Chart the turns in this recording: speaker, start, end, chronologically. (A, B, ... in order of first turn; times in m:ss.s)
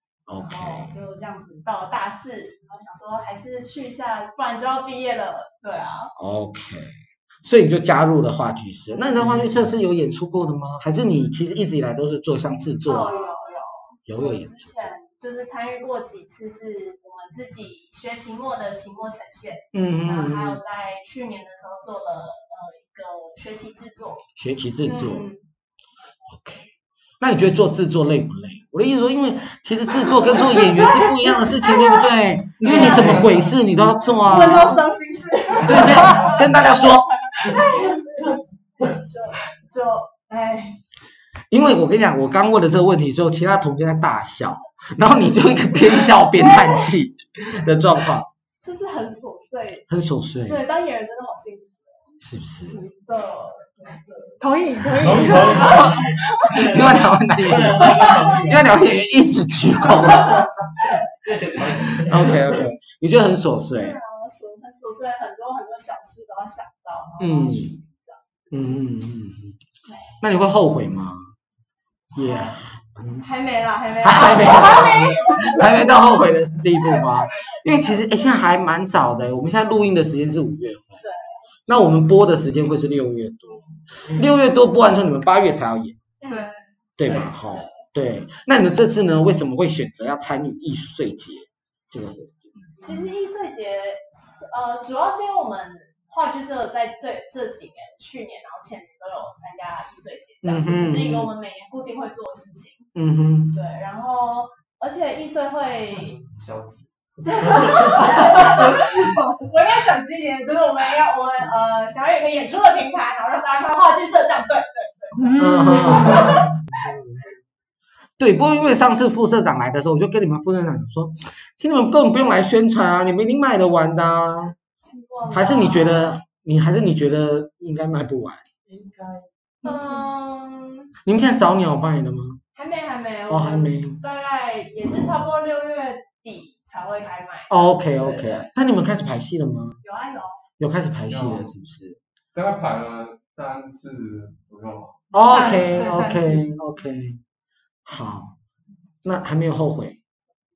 0:00.3-0:01.0 A
0:00.4-0:06.1 B
0:06.2-0:13.3 A
0:08.9-0:09.2 B
0:12.8-0:24.2 B
0:14.1-0:14.9 A
0:19.7-0:20.6 A
0:24.4-0:25.3 A
0:24.8-0:25.4 B
0:26.3-0:26.7 A
0:27.2-0:34.8 A
0:30.3-0:32.1 B
0:32.6-0:33.4 B
0:32.7-0:33.2 C
0:32.7-0:33.2 D
0:34.2-0:40.8 B
0:35.6-0:37.4 A
0:35.9-0:36.3 E
0:41.5-0:48.3 A
0:46.4-0:46.9 B
0:48.6-0:49.9 B
0:49.9-0:50.6 A
0:50.4-0:52.1 B
0:52.2-0:52.8 A
0:52.6-0:54.4 B
0:54.4-0:56.6 E
0:54.9-0:58.7 D
0:56.5-1:00.5 A
0:58.1-0:58.4 B
1:00.8-1:02.6 D
1:02.1-1:04.0 A
1:03.8-1:08.6 B
1:07.2-1:07.8 A
1:08.5-1:09.6 A
1:10.2-1:11.3 A
1:12.1-1:13.3 A
1:12.2-1:12.6 B
1:13.2-1:16.1 B
1:14.0-1:21.0 A
1:21.0-1:21.5 B
1:21.7-1:26.0 A
1:24.0-1:24.4 D
1:26.2-1:26.5 B
1:26.3-1:26.6 E
1:27.0-1:32.5 A
1:27.0-1:27.3 D
1:27.4-1:27.8 B
1:32.8-1:42.9 B
1:40.4-1:41.3 A
1:43.0-1:43.6 A
1:43.5-1:46.2 B
1:46.0-1:48.8 D
1:47.2-1:56.6 B
1:48.1-1:48.6 E
1:55.2-1:56.3 E
1:55.4-1:56.4 A
1:58.2-2:04.6 A
2:04.8-2:06.2 B
2:05.3-2:08.5 A
2:08.7-2:09.3 D
2:09.6-2:10.9 B
2:09.6-2:10.0 E
2:11.0-2:12.4 A
2:12.6-2:18.5 B
2:13.3-2:14.0 A
2:17.5-2:19.8 A
2:19.8-2:20.4 B
2:20.6-2:22.0 A
2:21.1-2:21.5 C
2:22.3-2:25.9 C
2:25.1-2:27.2 A
2:25.2-2:26.5 E
2:27.8-2:28.4 A
2:29.0-2:30.0 A